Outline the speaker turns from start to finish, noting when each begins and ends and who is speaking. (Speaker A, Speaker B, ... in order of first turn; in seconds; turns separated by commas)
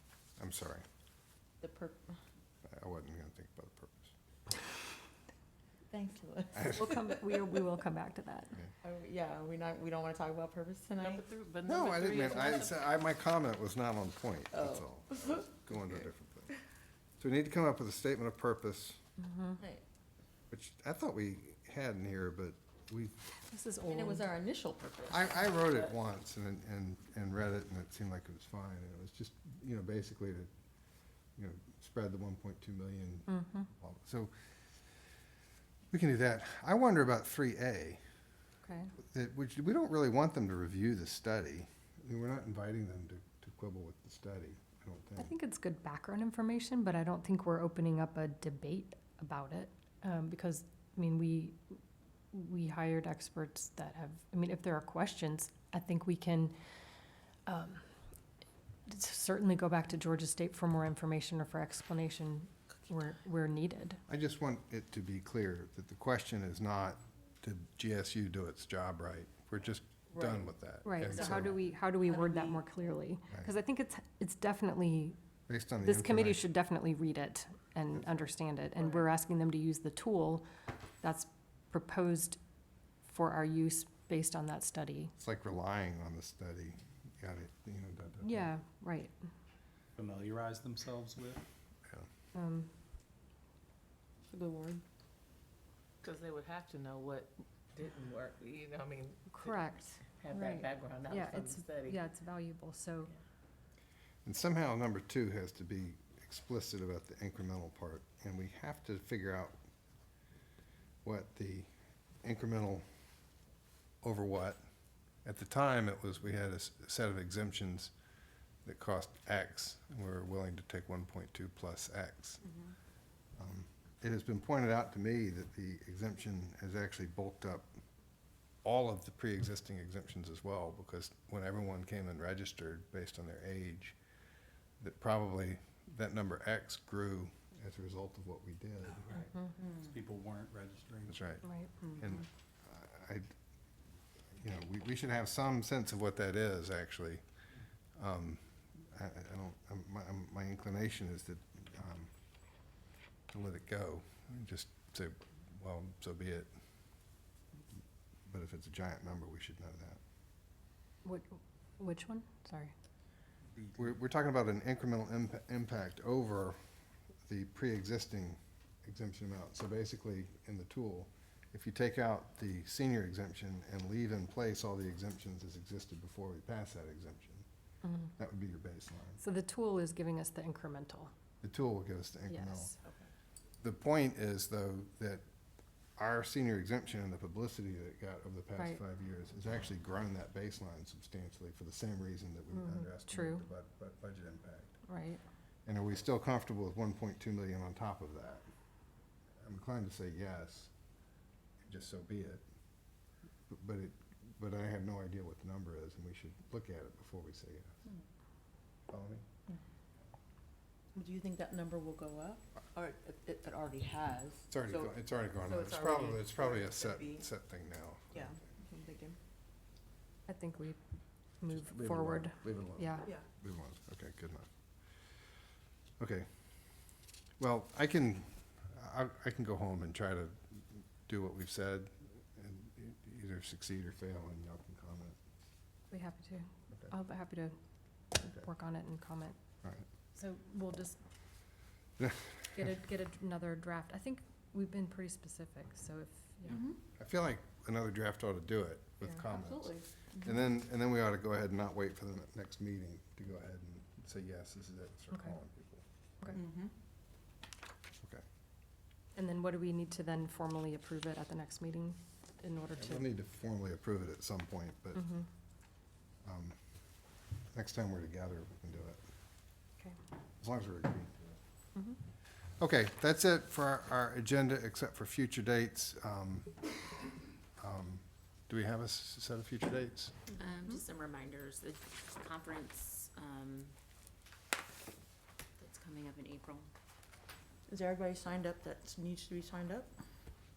Speaker A: 0.4-0.8, Speaker B: 1.6-2.1, Speaker A: 2.7-4.1, Speaker B: 5.9-7.5, Speaker C: 6.6-8.6, Speaker B: 8.8-11.2, Speaker D: 11.0-12.8, Speaker A: 11.6-16.5, Speaker B: 14.5-15.5, Speaker A: 17.2-19.0, Speaker C: 19.2-19.6, Speaker A: 20.5-23.3, Speaker C: 23.5-24.3, Speaker B: 23.8-25.9, Speaker A: 25.1-30.5, Speaker A: 31.4-34.3, Speaker C: 33.3-33.7, Speaker A: 35.9-38.0, Speaker C: 38.6-38.9, Speaker A: 39.0-45.3, Speaker C: 45.2-51.6, Speaker C: 52.3-56.5, Speaker C: 57.5-57.8, Speaker C: 58.9-64.0, Speaker A: 64.1-71.6, Speaker C: 70.8-75.2, Speaker B: 72.1-72.8, Speaker A: 75.5-76.4, Speaker C: 75.8-80.5, Speaker C: 81.0-82.4, Speaker C: 83.0-85.1, Speaker A: 85.2-88.5, Speaker C: 88.2-89.1, Speaker E: 90.0-91.5, Speaker C: 92.3-92.7, Speaker B: 94.3-94.8, Speaker D: 96.0-99.5, Speaker C: 99.3-103.1, Speaker D: 100.2-102.0, Speaker A: 104.2-109.5, Speaker A: 111.0-111.7, Speaker A: 112.2-112.8, Speaker A: 114.0-114.6, Speaker A: 115.2-117.9, Speaker A: 118.6-122.4, Speaker A: 123.4-127.7, Speaker A: 128.6-134.0, Speaker A: 134.8-139.1, Speaker E: 139.0-141.2, Speaker A: 141.1-143.3, Speaker C: 141.4-142.0, Speaker A: 144.4-147.2, Speaker A: 147.9-152.1, Speaker A: 153.3-156.5, Speaker A: 158.3-160.0, Speaker C: 161.0-162.7, Speaker A: 163.7-166.6, Speaker A: 167.3-177.4, Speaker C: 177.8-178.1, Speaker A: 178.2-179.2, Speaker C: 179.2-181.1, Speaker A: 181.4-182.7, Speaker C: 182.3-182.7, Speaker A: 183.6-185.2, Speaker A: 186.0-194.7, Speaker C: 192.5-193.4, Speaker C: 194.8-195.2, Speaker A: 195.7-198.4, Speaker A: 199.4-200.7, Speaker A: 201.7-202.4, Speaker A: 203.5-207.8, Speaker A: 208.9-209.2, Speaker B: 210.9-217.2, Speaker A: 214.5-218.3, Speaker B: 218.1-219.2, Speaker C: 220.3-220.8, Speaker C: 221.4-223.1, Speaker A: 221.5-224.5, Speaker A: 226.0-226.3, Speaker A: 227.4-235.2, Speaker C: 235.9-237.6, Speaker C: 238.1-239.4, Speaker C: 240.1-241.0, Speaker A: 242.0-242.3, Speaker C: 242.5-246.6, Speaker B: 246.5-246.7, Speaker A: 247.0-256.4, Speaker B: 249.5-249.8, Speaker B: 256.3-256.7, Speaker C: 259.1-263.1, Speaker A: 262.8-265.1, Speaker C: 264.9-265.2, Speaker A: 266.2-266.5, Speaker A: 267.5-269.0, Speaker A: 270.4-271.4, Speaker A: 272.6-276.5, Speaker A: 277.6-280.2, Speaker F: 280.4-283.7, Speaker B: 280.4-280.8, Speaker F: 285.6-286.7, Speaker B: 287.7-289.9